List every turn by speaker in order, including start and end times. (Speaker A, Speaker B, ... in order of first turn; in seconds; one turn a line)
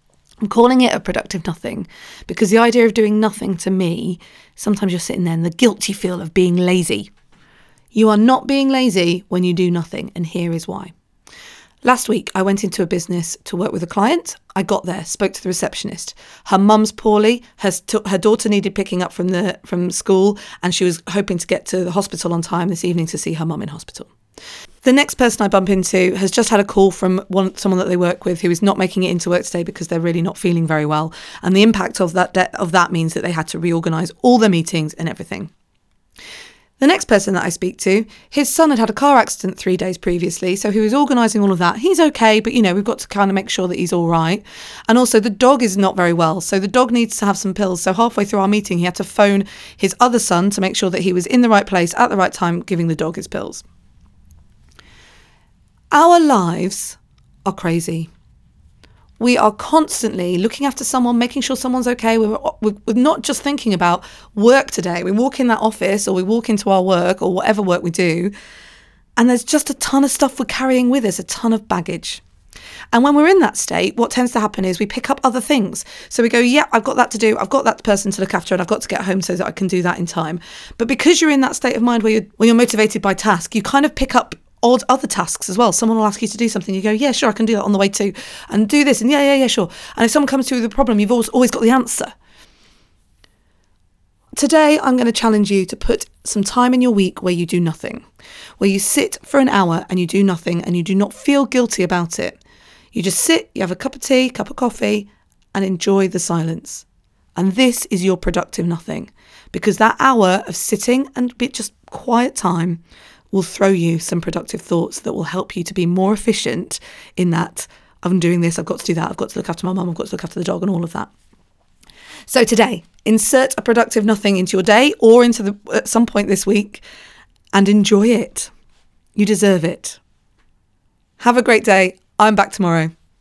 Speaker A: 0.4-7.1
Speaker A: 7.9-10.9
Speaker A: 11.8-24.1
Speaker A: 24.8-35.5
Speaker A: 36.8-53.6
Speaker A: 55.9-58.1
Speaker A: 59.2-68.3
Speaker A: 69.2-72.2
Speaker A: 72.9-92.1
Speaker A: 94.3-98.0
Speaker A: 98.6-102.4
Speaker A: 102.9-106.8
Speaker A: 107.3-112.8
Speaker A: 113.3-121.1
Speaker A: 122.3-126.8
Speaker A: 127.5-128.5
Speaker A: 129.2-130.0
Speaker A: 131.2-132.9